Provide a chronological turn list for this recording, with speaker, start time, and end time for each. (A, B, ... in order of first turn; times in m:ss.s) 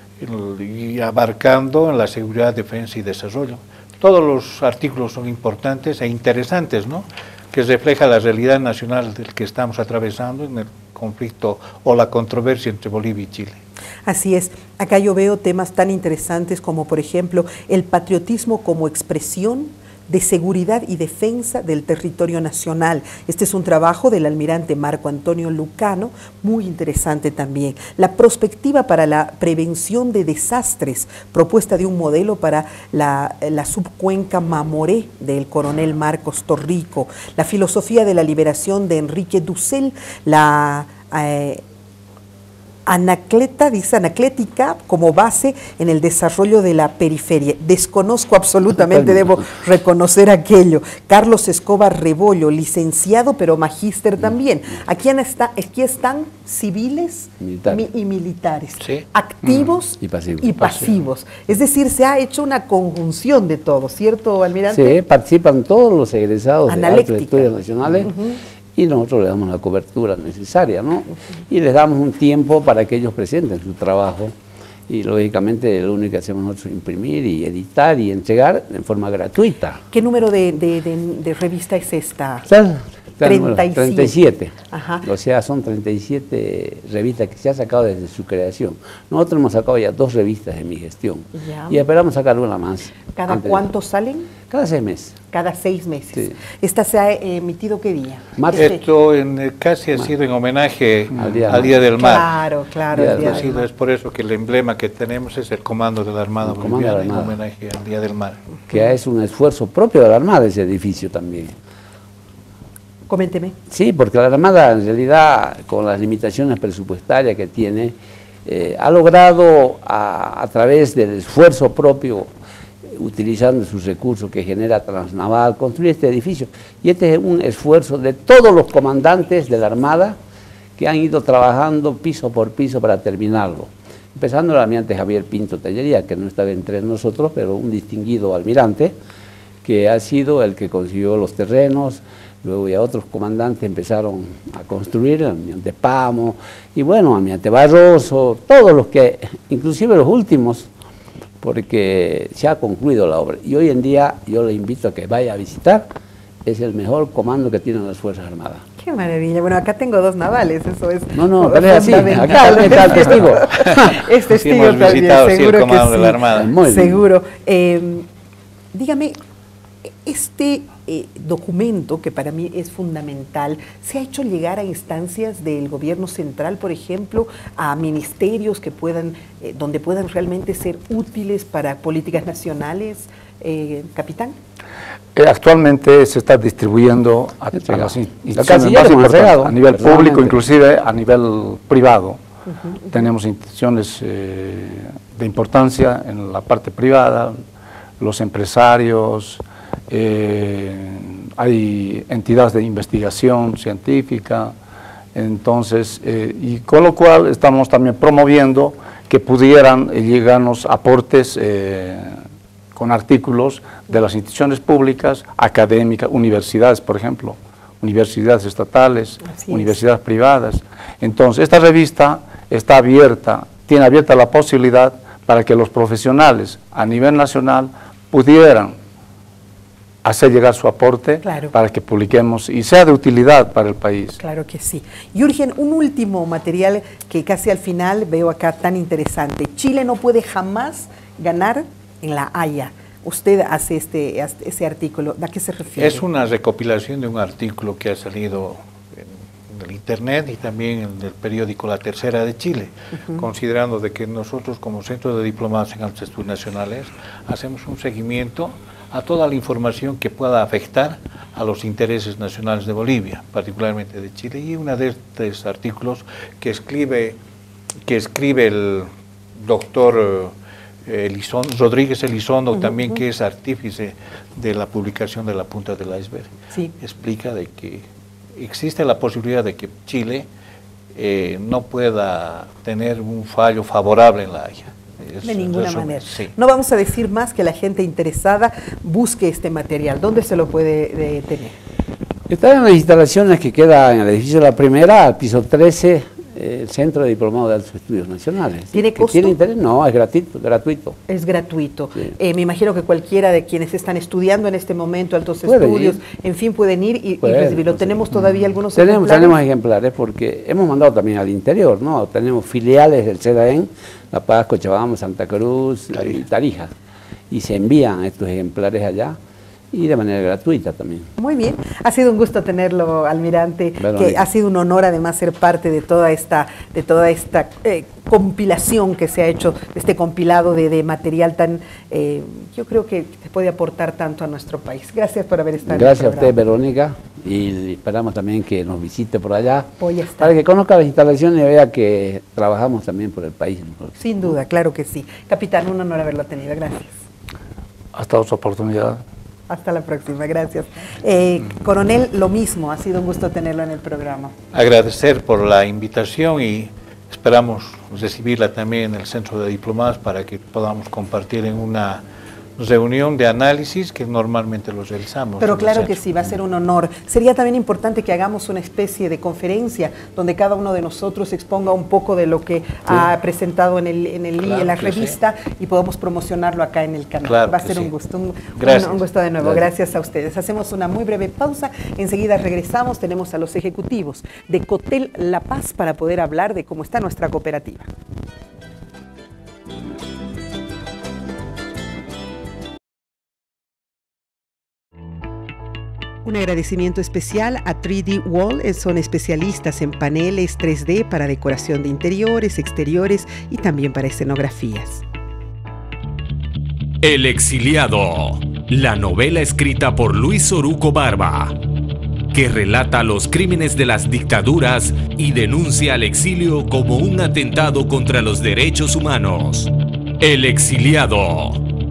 0:00.2-0:13.6 A
0:14.0-0:41.6 B
0:42.8-1:05.0 B
0:48.9-0:49.3 C
0:57.4-0:57.8 C
1:00.0-1:00.7 C
1:04.7-1:08.1 C
1:06.7-1:08.4 B
1:08.8-1:14.3 C
1:14.9-1:19.8 C
1:19.9-1:22.5 B
1:22.5-1:33.6 C
1:23.2-1:24.2 B
1:24.7-1:25.1 B
1:31.3-1:31.8 B
1:33.1-1:34.3 B
1:34.5-1:35.2 C
1:35.3-1:38.8 B
1:38.4-1:38.7 C
1:38.5-1:42.3 A
1:41.2-1:41.8 C
1:42.0-1:43.6 B
1:42.9-1:43.4 C
1:43.0-1:48.4 A
1:46.4-1:47.4 C
1:48.7-1:51.5 C
1:53.1-1:53.6 B
1:53.7-1:57.9 C
1:58.4-2:02.3 C
2:02.8-2:10.2 C
2:10.8-2:18.9 C
2:19.6-2:30.7 C
2:31.4-2:35.9 C
2:36.4-2:38.6 C
2:38.8-2:48.1 B
2:41.1-2:44.0 C
2:44.1-2:46.5 A
2:46.3-2:47.0 C
2:48.7-2:49.2 B
2:49.8-3:04.3 B
3:05.1-3:12.2 D
3:07.6-3:10.4 C
3:12.9-3:17.4 D
3:18.0-3:24.5 D
3:25.1-3:32.1 D
3:32.7-3:48.7 D
3:39.4-3:39.6 B
3:50.0-3:54.2 D
3:51.2-3:51.5 B
3:54.2-4:06.0 B
4:05.8-4:27.2 A
4:27.9-4:28.9 A
4:29.4-4:30.3 A
4:30.8-4:37.8 A
4:38.4-4:40.2 A
4:40.9-4:46.3 A
4:45.2-4:51.6 B
4:52.3-5:01.0 C
4:58.7-4:59.4 B
5:01.1-5:09.4 B
5:05.4-5:06.0 C
5:07.2-5:08.1 C
5:08.7-5:16.7 C
5:17.3-5:19.2 C
5:19.7-5:21.1 C
5:21.2-5:36.3 B
5:23.8-5:24.2 C
5:35.7-5:44.0 C
5:39.8-5:40.3 B
5:44.0-5:47.0 B
5:47.9-5:49.0 D
5:49.5-5:54.3 B
5:54.5-6:02.0 A
6:02.6-6:06.0 A
6:05.4-6:27.9 B
6:14.4-6:15.1 A
6:17.2-6:17.9 A
6:18.6-6:19.6 A
6:36.2-6:45.0 B
6:47.0-6:51.5 E
6:52.3-7:01.6 E